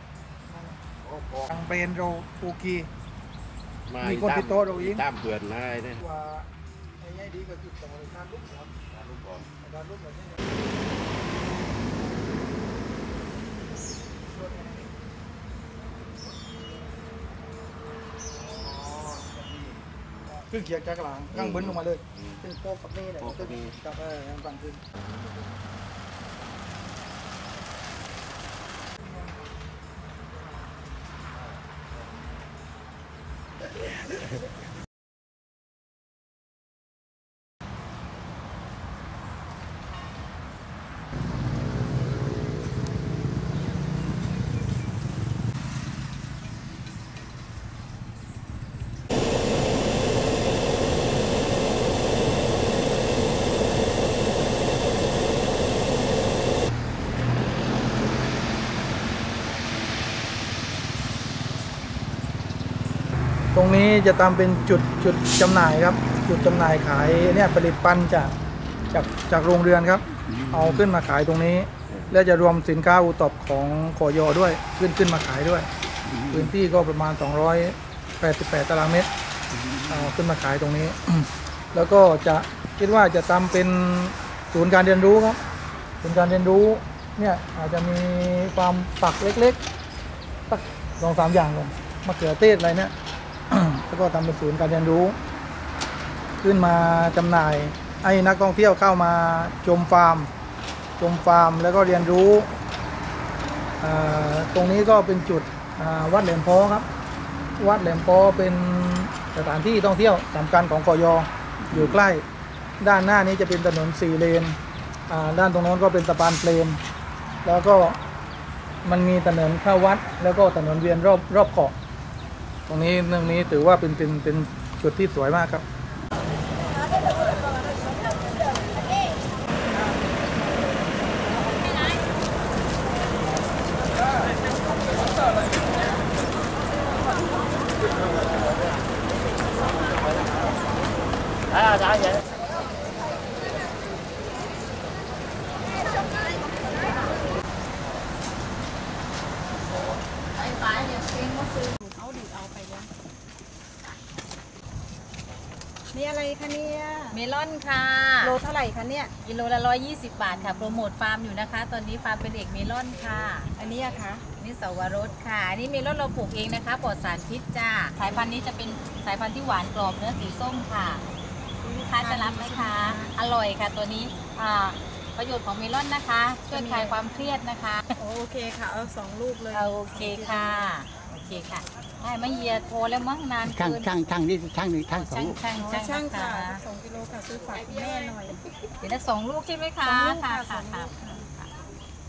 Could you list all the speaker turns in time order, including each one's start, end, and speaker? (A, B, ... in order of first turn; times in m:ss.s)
0:00.5-0:00.8 A
0:01.0-0:01.5 B
0:01.5-0:02.9 A
0:03.9-0:06.0 B
0:04.0-0:05.0 A
0:06.0-0:06.5 A
0:07.0-0:08.7 A
0:08.9-0:09.5 B
0:09.6-0:10.4 A
0:18.8-0:19.4 B
0:20.5-0:24.8 A
0:21.3-0:22.3 B
0:23.2-0:23.7 B
1:03.5-1:08.3 A
1:08.9-1:15.7 A
1:10.3-1:10.6 C
1:16.3-1:19.1 A
1:19.9-1:25.4 A
1:26.0-1:29.6 A
1:30.5-1:32.9 A
1:33.5-1:35.2 A
1:36.4-1:40.3 A
1:41.0-1:42.5 A
1:43.8-1:46.9 A
1:47.6-1:52.2 A
1:52.8-1:54.6 A
1:55.1-1:56.8 A
1:57.4-1:58.0 A
1:58.8-2:01.7 A
2:02.7-2:05.6 A
2:11.4-2:12.1 D
2:30.3-2:31.7 D
2:31.8-2:32.9 E
2:35.9-2:37.2 E
2:37.1-2:38.3 D
2:38.2-2:39.1 E
2:39.2-2:43.5 D
2:40.3-2:40.8 E
2:43.5-2:44.2 E
2:44.4-2:51.0 D
2:51.6-2:53.1 E
2:51.9-2:57.8 D
2:56.5-2:57.1 E
2:58.0-3:00.7 E
2:59.5-3:03.9 D
3:03.4-3:05.4 C
3:04.9-3:06.6 D
3:05.5-3:08.4 E
3:08.8-3:11.5 D
3:09.8-3:11.2 E